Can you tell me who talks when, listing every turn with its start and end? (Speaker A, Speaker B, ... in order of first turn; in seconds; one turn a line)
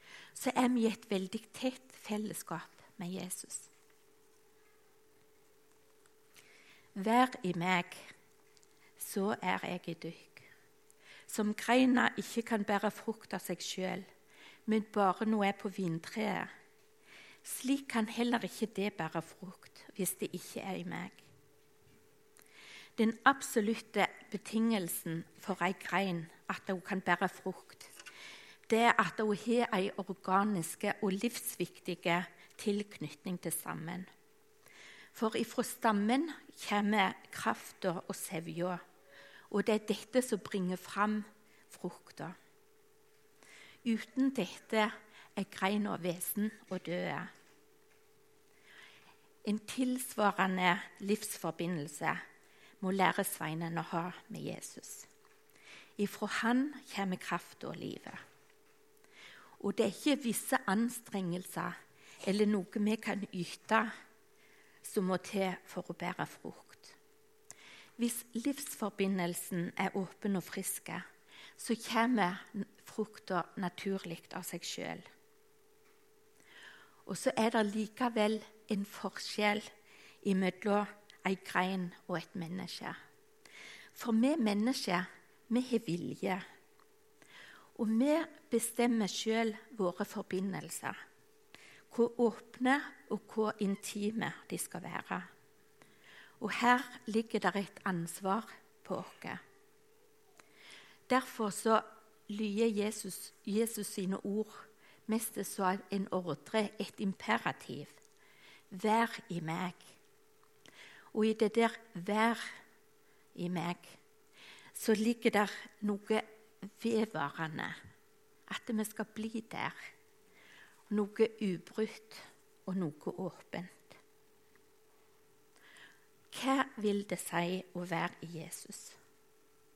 Speaker A: 0.3-3.7
Speaker A: 7.0-8.1
Speaker A: 9.0-10.5
Speaker A: 11.3-14.1
Speaker A: 14.7-16.5
Speaker A: 17.4-21.2
Speaker A: 23.0-27.9
Speaker A: 28.7-34.1
Speaker A: 35.1-38.8
Speaker A: 39.5-42.4
Speaker A: 43.8-47.3
Speaker A: 49.4-52.2
Speaker A: 52.8-55.1
Speaker A: 56.0-58.2
Speaker A: 59.6-63.9
Speaker A: 64.8-67.0
Speaker A: 68.0-71.0
Speaker A: 71.6-75.1
Speaker A: 77.0-79.7
Speaker A: 80.2-83.0
Speaker A: 83.9-86.4
Speaker A: 87.8-91.0
Speaker A: 91.9-95.3
Speaker A: 96.4-99.4
Speaker A: 101.1-108.0
Speaker A: 108.7-109.9
Speaker A: 111.1-112.4
Speaker A: 113.3-114.0
Speaker A: 114.7-117.8
Speaker A: 118.5-119.7
Speaker A: 120.9-124.0
Speaker A: 126.3-129.0